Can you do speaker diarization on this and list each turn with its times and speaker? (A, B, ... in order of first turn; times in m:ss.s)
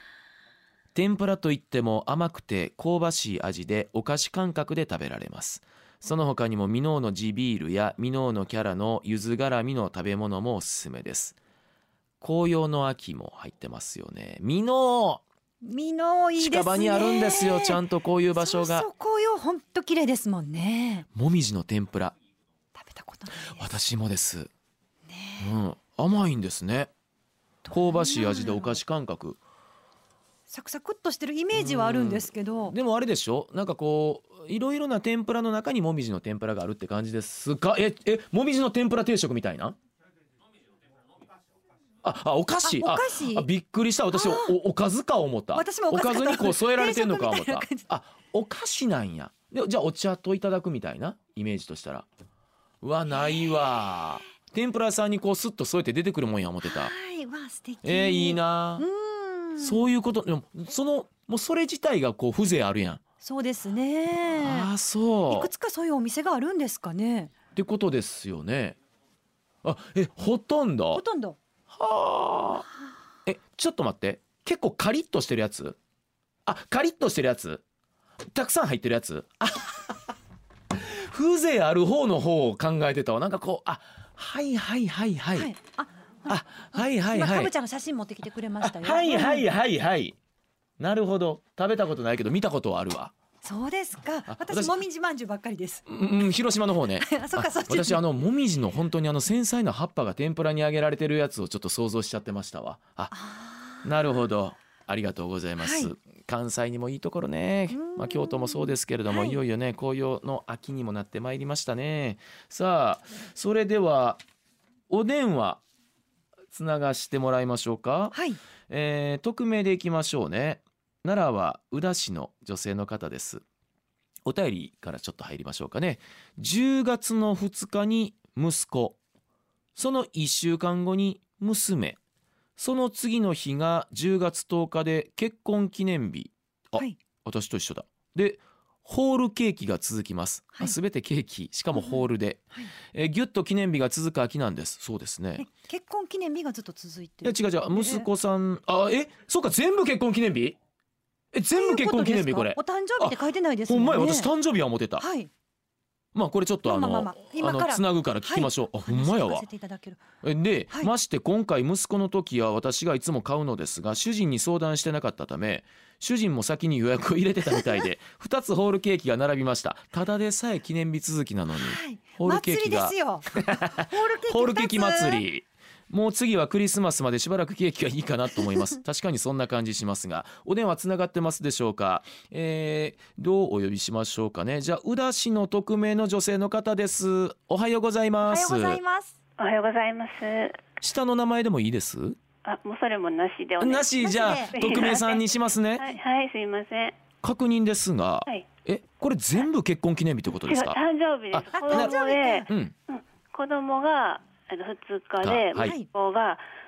0:01.0-0:11.4 A
0:12.2-0:15.2 A
0:15.6-0:17.8 B
0:16.4-0:18.9 A
0:18.4-0:21.1 B
0:21.2-0:22.2 A
0:22.8-0:23.7 B
0:23.4-0:24.5 A
0:25.1-0:25.6 B
0:25.4-0:26.9 A
0:27.6-0:28.8 B
0:27.7-0:29.4 A
0:30.5-0:32.8 B
0:31.5-0:39.8 A
0:42.0-0:52.1 A
0:42.6-0:43.5 B
0:44.1-0:44.6 B
0:45.5-0:47.9 B
0:52.8-0:56.9 A
0:53.1-0:54.2 B
0:56.6-0:59.8 B
0:57.8-0:58.9 A
0:59.6-1:03.0 A
1:03.2-1:04.7 B
1:04.3-1:05.5 A
1:05.3-1:07.3 B
1:07.5-1:08.8 A
1:09.6-1:11.0 A
1:10.9-1:11.4 B
1:11.7-1:12.7 A
1:13.3-1:15.8 A
1:16.4-1:17.6 A
1:18.3-1:20.1 A
1:20.7-1:25.5 A
1:25.4-1:29.4 B
1:26.3-1:27.5 A
1:28.6-1:30.2 A
1:30.8-1:33.1 A
1:33.4-1:35.8 B
1:34.3-1:34.8 A
1:35.9-1:43.1 A
1:37.0-1:38.0 B
1:43.1-1:43.9 B
1:43.8-1:54.2 A
1:45.6-1:45.9 B
1:47.7-1:49.4 B
1:54.9-1:55.6 A
1:56.5-1:58.2 A
1:58.1-1:58.4 B
1:58.7-2:03.4 A
2:04.2-2:09.0 A
2:09.8-2:12.0 A
2:12.6-2:25.5 A
2:21.7-2:22.0 B
2:25.4-2:28.1 B
2:27.2-2:30.6 A
2:31.3-2:35.0 A
2:31.5-2:34.3 B
2:35.0-2:35.3 B
2:36.1-2:39.5 A
2:36.6-2:40.0 B
2:40.2-3:08.8 A
2:51.5-2:55.2 B
3:08.2-3:09.2 B
3:09.4-3:10.6 C
3:10.8-3:12.2 A
3:12.4-3:13.9 C
3:13.6-3:15.9 A
3:14.0-3:14.6 B
3:14.5-3:15.2 C
3:15.8-3:17.0 C
3:17.2-3:20.8 A
3:20.4-3:26.4 C
3:21.3-3:22.0 A
3:21.5-3:22.5 B
3:22.5-3:22.7 A
3:25.2-3:25.7 A
3:25.6-3:25.9 B